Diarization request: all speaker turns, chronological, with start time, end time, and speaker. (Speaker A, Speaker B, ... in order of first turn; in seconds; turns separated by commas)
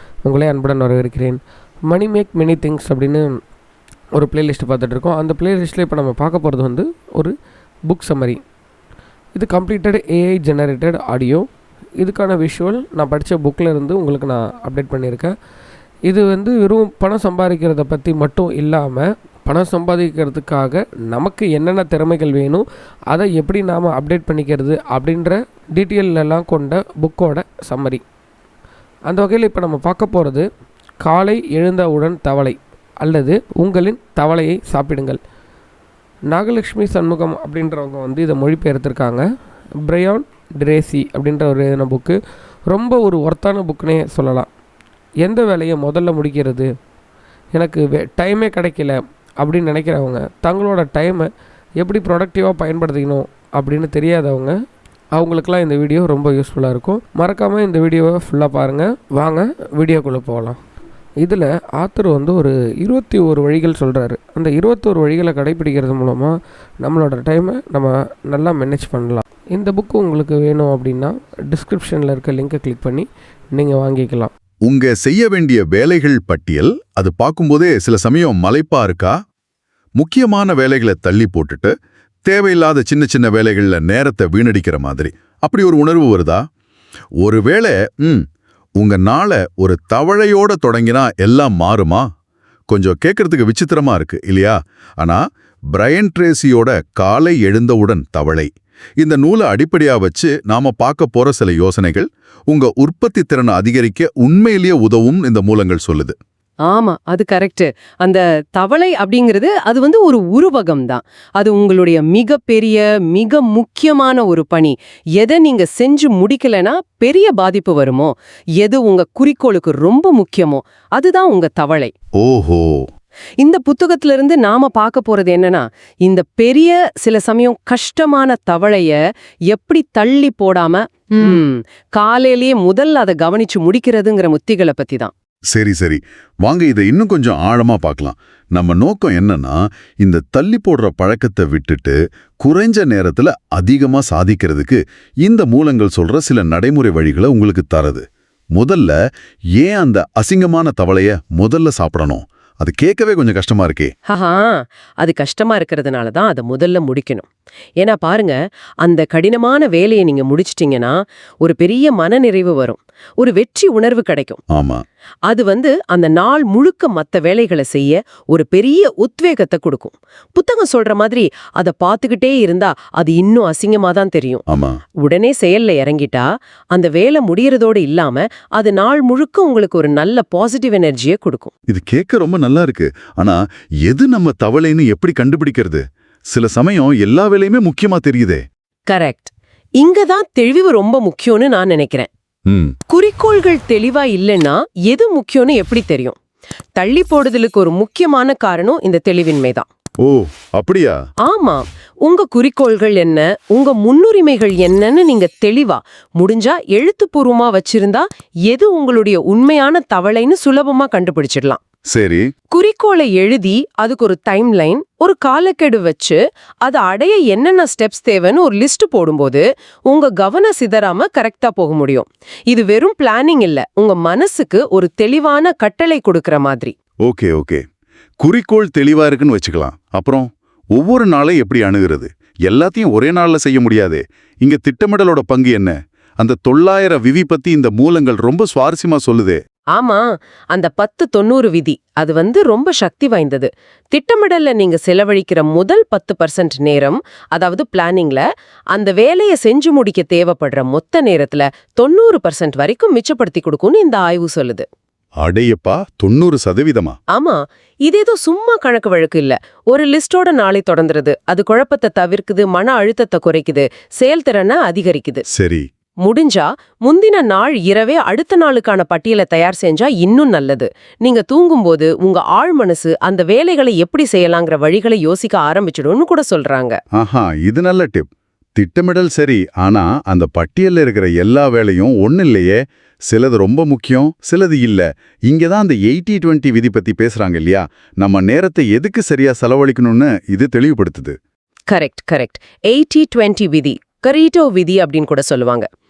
Speaker A: 0.2-3.3, Speaker A: 4.2-7.3, Speaker A: 7.9-8.4, Speaker A: 9.3-11.5, Speaker A: 12.0-15.3, Speaker A: 16.1-28.0, Speaker A: 29.1-30.4, Speaker A: 31.0-35.2, Speaker A: 36.3-39.2, Speaker A: 39.8-44.5, Speaker A: 45.2-46.7, Speaker A: 47.5-54.5, Speaker A: 55.1-60.6, Speaker A: 61.2-74.3, Speaker B: 74.7-79.2, Speaker B: 80.0-81.7, Speaker B: 82.3-86.4, Speaker B: 87.2-88.2, Speaker B: 88.8-92.1, Speaker B: 92.7-95.2, Speaker B: 95.7-106.2, Speaker C: 106.7-121.9, Speaker B: 122.2-122.9, Speaker C: 123.4-129.0, Speaker C: 129.5-135.1, Speaker B: 135.5-149.0, Speaker B: 149.6-153.9, Speaker C: 154.1-157.3, Speaker C: 157.8-164.4, Speaker B: 164.5-164.8, Speaker C: 165.3-174.4, Speaker B: 174.5-174.8, Speaker C: 175.0-181.5, Speaker B: 181.7-188.4, Speaker C: 188.9-192.1, Speaker B: 192.5-192.8, Speaker C: 192.9-196.2, Speaker C: 196.8-199.7, Speaker B: 200.0-201.0, Speaker C: 201.2-211.6, Speaker B: 211.9-212.3, Speaker C: 212.5-226.7, Speaker B: 227.0-227.6, Speaker B: 228.2-239.4, Speaker C: 239.7-254.7, Speaker B: 255.2-257.0, Speaker C: 257.1-265.2, Speaker B: 265.3-265.7, Speaker C: 266.0-276.8, Speaker B: 276.9-291.1, Speaker C: 291.7-295.7